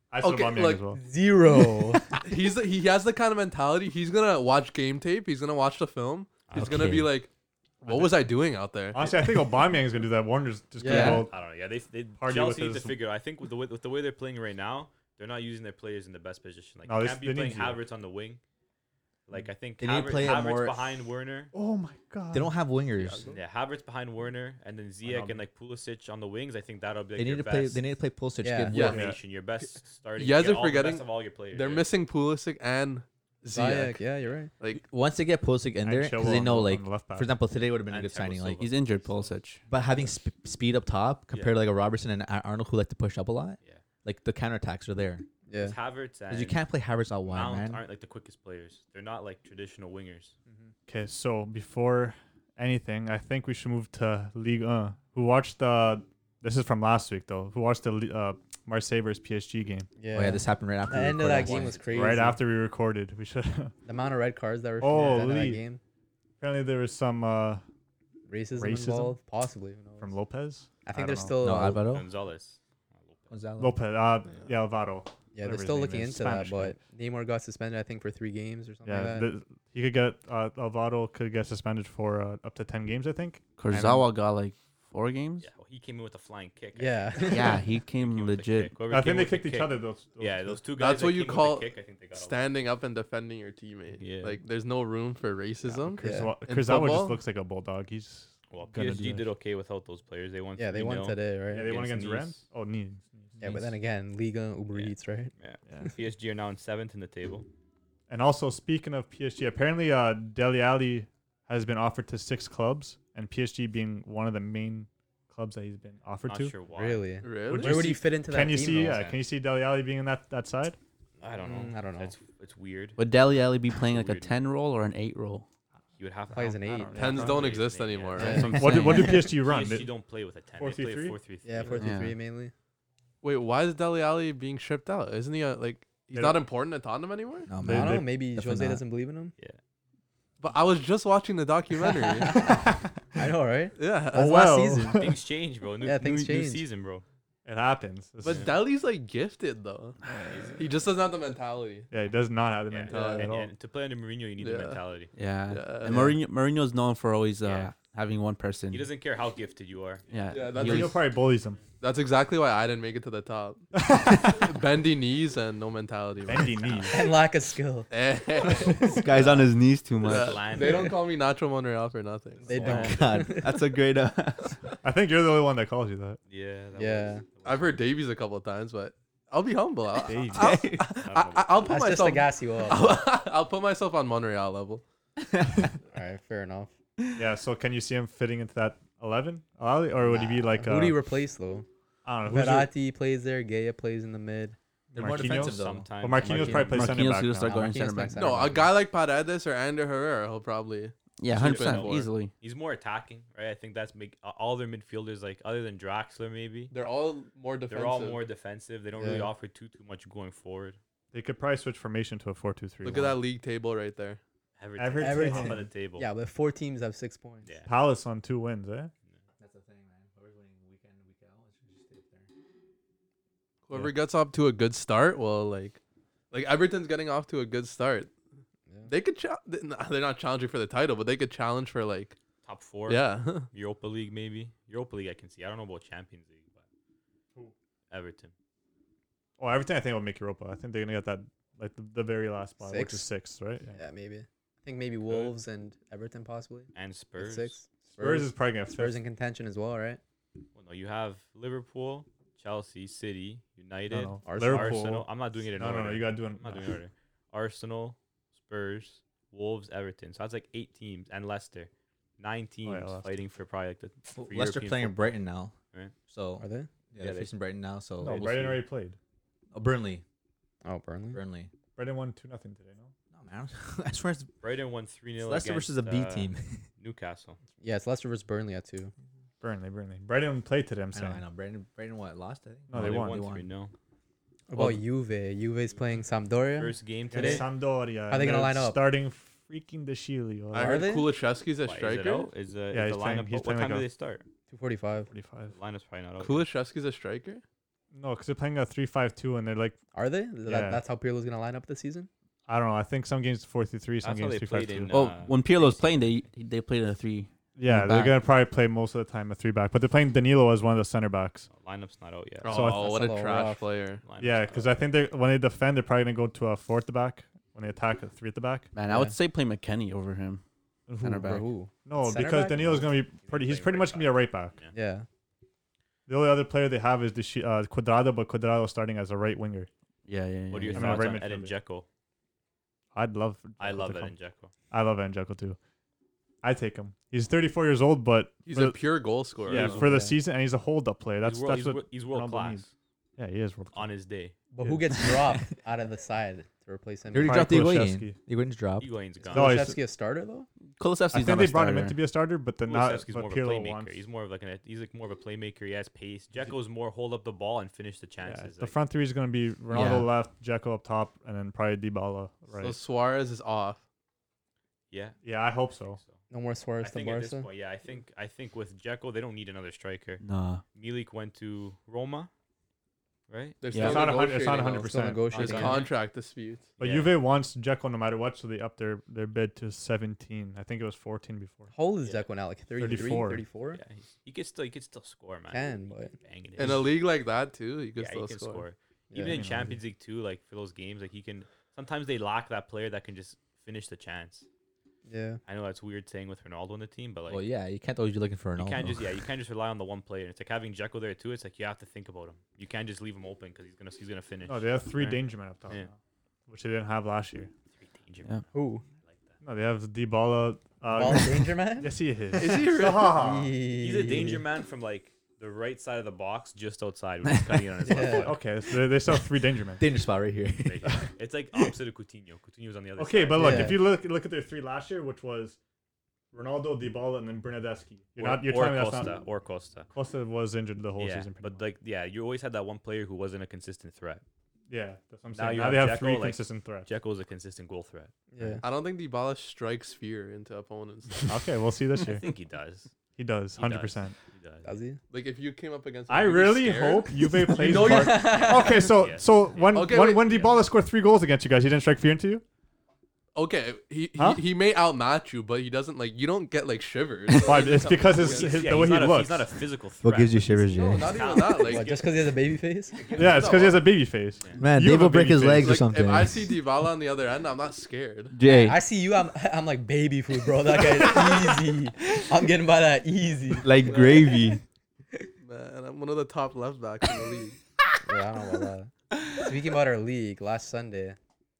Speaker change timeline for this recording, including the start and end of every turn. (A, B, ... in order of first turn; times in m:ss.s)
0:00.1-0:01.0 A
0:00.2-0:00.8 B
0:01.0-0:02.0 C
0:02.2-0:07.3 B
0:06.5-0:07.0 D
0:06.5-0:07.1 E
0:07.8-0:08.2 A
0:07.8-0:09.0 B
0:08.9-0:11.3 A
0:10.8-0:11.2 C
0:10.9-0:11.3 F
0:11.0-0:18.4 D
0:12.2-0:13.0 A
0:16.8-0:17.8 A
0:19.3-0:21.5 D
0:19.8-0:21.0 E
0:21.5-0:22.5 A
0:22.3-0:23.2 E
0:23.0-0:23.4 B
0:23.3-0:27.8 D
0:27.2-0:29.0 E
0:28.4-0:28.9 C
0:28.7-0:29.1 B
0:28.8-0:31.9 D
0:28.9-0:29.2 A
0:30.2-0:34.0 B
0:33.5-0:34.5 C
0:34.7-0:38.6 E
0:35.8-0:37.3 A
0:37.8-0:39.3 D
0:38.6-0:39.6 F
0:39.7-0:45.2 E
0:45.5-0:45.8 C
0:45.5-0:46.6 D
0:46.3-0:47.8 E
0:47.3-0:50.4 D
0:50.9-0:59.9 A
1:00.0-1:02.4 C
1:00.1-1:01.8 E
1:01.4-1:02.0 D
1:01.9-1:03.7 A
1:03.8-1:05.8 C
1:04.8-1:05.6 A
1:06.4-1:07.6 A
1:08.3-1:10.2 C
1:08.5-1:09.2 A
1:10.0-1:11.4 A
1:10.8-1:11.8 C
1:11.4-1:12.1 E
1:11.9-1:13.4 D
1:13.3-1:13.8 E
1:13.6-1:16.8 A
1:15.3-1:19.3 C
1:18.8-1:24.1 A
1:23.6-1:25.5 F
1:25.4-1:32.4 D
1:26.8-1:27.6 C
1:27.3-1:28.8 F
1:28.9-1:30.6 A
1:30.8-1:37.2 B
1:34.0-1:34.4 D
1:35.8-1:39.3 A
1:36.0-1:36.3 C
1:38.5-1:42.4 D
1:40.6-1:41.7 C
1:41.5-1:43.6 A
1:43.4-1:45.8 C
1:44.7-1:47.5 D
1:45.7-1:45.9 A
1:48.1-1:56.6 A
1:56.2-1:57.0 D
1:56.7-1:59.1 C
1:57.2-1:57.9 B
1:57.5-2:00.8 A
1:58.8-1:59.1 E
2:01.2-2:03.0 D
2:01.2-2:02.1 C
2:03.0-2:05.4 F
2:03.7-2:04.3 D
2:06.0-2:11.8 D
2:06.3-2:07.2 C
2:06.6-2:07.6 A
2:06.9-2:08.5 B
2:08.2-2:09.3 F
2:08.2-2:09.2 C
2:08.5-2:09.9 A
2:10.6-2:11.3 A
2:11.4-2:12.5 C
2:11.8-2:12.1 F
2:13.2-2:17.5 B
2:16.1-2:16.4 A
2:17.5-2:18.8 E
2:17.6-2:18.0 A
2:17.7-2:19.3 C
2:20.4-2:22.4 B
2:22.0-2:25.0 C
2:22.4-2:23.3 A
2:23.8-2:24.3 B
2:24.1-2:25.2 A
2:24.9-2:27.0 D
2:25.8-2:26.6 C
2:27.4-2:28.6 A
2:28.2-2:30.0 B
2:28.2-2:28.5 D
2:30.1-2:30.5 F
2:30.2-2:30.7 D
2:30.6-2:31.9 B
2:31.9-2:33.5 A
2:32.7-2:35.1 D
2:32.9-2:33.3 B
2:34.4-2:34.8 B
2:35.1-2:38.9 F
2:35.5-2:36.1 B
2:37.4-2:37.7 D
2:38.7-2:40.3 D
2:40.1-2:41.1 F
2:40.3-2:41.0 B
2:40.6-2:41.6 A
2:41.8-2:43.6 B
2:43.7-2:44.5 A
2:44.3-2:46.8 B
2:46.3-2:47.0 A
2:46.9-2:47.9 C
2:47.9-2:49.0 B
2:48.8-2:50.3 E
2:49.1-2:50.4 F
2:50.0-2:52.8 B
2:50.0-2:51.0 D
2:50.5-2:50.9 C
2:52.5-2:53.6 C
2:52.5-2:53.1 D
2:52.5-2:54.6 E
2:52.6-2:53.4 F
2:54.8-2:56.2 A
2:56.3-2:57.8 D
2:56.8-2:57.2 C
2:57.4-3:04.8 B
3:00.0-3:00.6 A
3:00.4-3:01.1 F
3:00.9-3:01.8 D
3:01.6-3:02.9 C
3:05.9-3:06.7 C
3:07.2-3:11.0 A
3:10.0-3:11.7 C
3:12.0-3:12.7 A
3:12.2-3:14.6 C
3:14.9-3:17.7 A
3:14.9-3:15.9 E
3:15.1-3:17.0 D
3:16.2-3:18.7 C
3:16.6-3:18.5 F
3:18.2-3:22.1 B
3:21.2-3:22.3 F
3:21.3-3:26.7 D
3:26.7-3:28.2 B
3:27.7-3:30.8 D
3:29.0-3:29.3 C
3:31.1-3:33.2 A
3:32.8-3:34.2 B
3:34.6-3:36.1 D
3:34.8-3:35.7 A
3:35.0-3:37.5 C
3:37.4-3:37.7 D
3:37.6-3:38.9 A
3:39.4-3:42.3 E
3:43.7-3:45.8 B
3:46.3-3:48.1 B
3:48.9-3:52.2 B
3:52.4-3:56.6 D
3:52.9-3:53.5 B
3:57.9-3:58.3 D
3:59.4-4:03.8 A
4:02.6-4:03.1 C
4:03.8-4:10.0 C
4:05.1-4:05.3 D
4:06.7-4:07.6 D
4:07.9-4:09.0 A
4:10.5-4:25.1 D
4:13.9-4:16.8 A
4:14.2-4:14.8 C
4:22.6-4:23.1 A
4:24.1-4:25.5 E
4:26.1-4:28.6 E
4:26.4-4:26.7 C
4:27.0-4:27.3 D
4:28.0-4:29.0 A
4:29.5-4:30.0 E
4:30.6-4:31.2 C
4:31.1-4:31.5 E
4:31.8-4:32.9 A
4:33.1-4:34.3 E
4:34.4-4:37.4 D
4:35.2-4:36.6 E
4:37.6-4:38.9 C
4:39.4-4:41.2 A
4:40.9-4:43.4 E
4:42.7-4:43.2 A
4:42.7-4:43.7 D
4:44.5-4:48.8 C
4:44.5-4:44.8 F
4:46.6-4:47.4 D
4:47.1-4:50.8 A
4:50.5-4:52.3 B
4:50.6-4:51.1 C
4:51.6-4:54.2 D
4:52.7-4:53.9 A
4:54.5-4:55.1 C
4:55.1-4:55.5 A
4:55.5-4:56.5 D
4:56.2-4:57.4 B
4:57.9-4:59.8 A
4:59.9-5:02.1 C
5:00.4-5:00.8 A
5:02.5-5:05.1 A
5:04.0-5:06.2 D
5:04.9-5:08.3 F
5:07.5-5:11.5 A
5:11.5-5:12.6 D
5:12.4-5:14.0 B
5:12.5-5:12.9 A
5:12.5-5:13.7 C
5:14.0-5:14.8 D
5:14.2-5:18.7 A
5:18.7-5:20.4 F
5:18.8-5:19.2 C
5:20.9-5:21.3 A
5:21.0-5:21.4 F
5:21.2-5:22.9 C
5:21.8-5:24.6 A
5:23.2-5:24.7 D
5:24.7-5:25.1 C
5:26.1-5:29.7 A
5:30.0-5:31.2 F
5:30.5-5:31.8 D
5:30.7-5:31.5 A
5:32.9-5:34.1 A
5:33.6-5:34.5 D
5:34.7-5:35.6 A
5:36.4-5:38.8 A
5:38.4-5:39.8 B
5:39.4-5:39.9 D
5:39.4-5:42.6 A
5:39.7-5:40.2 C
5:41.2-5:42.7 D
5:43.2-5:43.9 A
5:43.7-5:44.3 D
5:44.5-5:47.6 C
5:44.6-5:44.9 A
5:47.1-5:48.9 E
5:47.2-5:48.2 A
5:48.8-5:49.5 D
5:49.3-5:50.5 C
5:49.3-5:49.8 A
5:50.8-5:52.0 F
5:51.1-5:54.0 A
5:52.6-5:58.7 D
5:58.2-6:02.8 A
5:59.7-6:00.0 E
5:59.7-6:00.0 F
6:02.6-6:03.8 B
6:04.9-6:05.2 D
6:05.2-6:06.0 A
6:06.3-6:07.5 C
6:06.8-6:12.3 D
6:10.2-6:10.6 F
6:13.3-6:13.6 D
6:13.6-6:16.7 B
6:13.7-6:14.1 F
6:13.8-6:15.8 A
6:14.8-6:15.9 C
6:15.3-6:15.9 D
6:16.8-6:21.7 A
6:16.8-6:17.2 D
6:21.7-6:23.8 C
6:22.8-6:23.4 A
6:23.7-6:26.9 D
6:25.5-6:26.1 C
6:26.6-6:28.6 B
6:28.0-6:34.5 D
6:29.1-6:29.4 C
6:29.3-6:29.8 A
6:35.0-6:35.4 C
6:35.4-6:37.4 D
6:37.3-6:39.0 E
6:38.6-6:45.9 D
6:44.4-6:45.9 A
6:46.5-6:47.5 A
6:47.7-6:48.4 D
6:48.5-6:48.8 C
6:49.4-6:53.6 A
6:50.9-6:52.0 C
6:52.3-6:53.2 B
6:53.1-6:54.4 C
6:53.8-6:58.4 D
6:57.8-6:58.3 C
6:58.0-6:59.8 A
6:59.8-7:00.9 E
7:00.6-7:03.7 D
7:03.0-7:05.6 A
7:03.4-7:03.8 C
7:06.3-7:09.1 A
7:08.2-7:09.9 D
7:09.9-7:11.6 A
7:11.0-7:14.2 D
7:14.7-7:16.9 A
7:15.3-7:18.1 D
7:18.3-7:18.6 C
7:18.6-7:21.5 B
7:21.3-7:22.3 A
7:22.0-7:22.9 D
7:23.2-7:24.2 A
7:23.6-7:24.7 D
7:24.6-7:25.0 C
7:25.1-7:28.2 B
7:26.1-7:32.4 A
7:27.5-7:29.0 C
7:28.2-7:30.6 D
7:29.7-7:30.4 B
7:33.3-7:38.9 B
7:34.2-7:34.4 A
7:37.3-7:39.5 A
7:37.5-7:38.3 C
7:38.2-7:43.7 D
7:40.0-7:41.2 E
7:40.8-7:41.9 B
7:41.6-7:43.1 C
7:43.1-7:45.8 A
7:43.2-7:43.8 B
7:44.6-7:46.6 E
7:45.6-7:48.4 B
7:48.4-7:48.8 F
7:48.4-7:48.7 E
7:48.5-7:54.2 C
7:53.6-7:54.6 E
7:55.4-7:57.6 B
7:58.0-8:01.2 C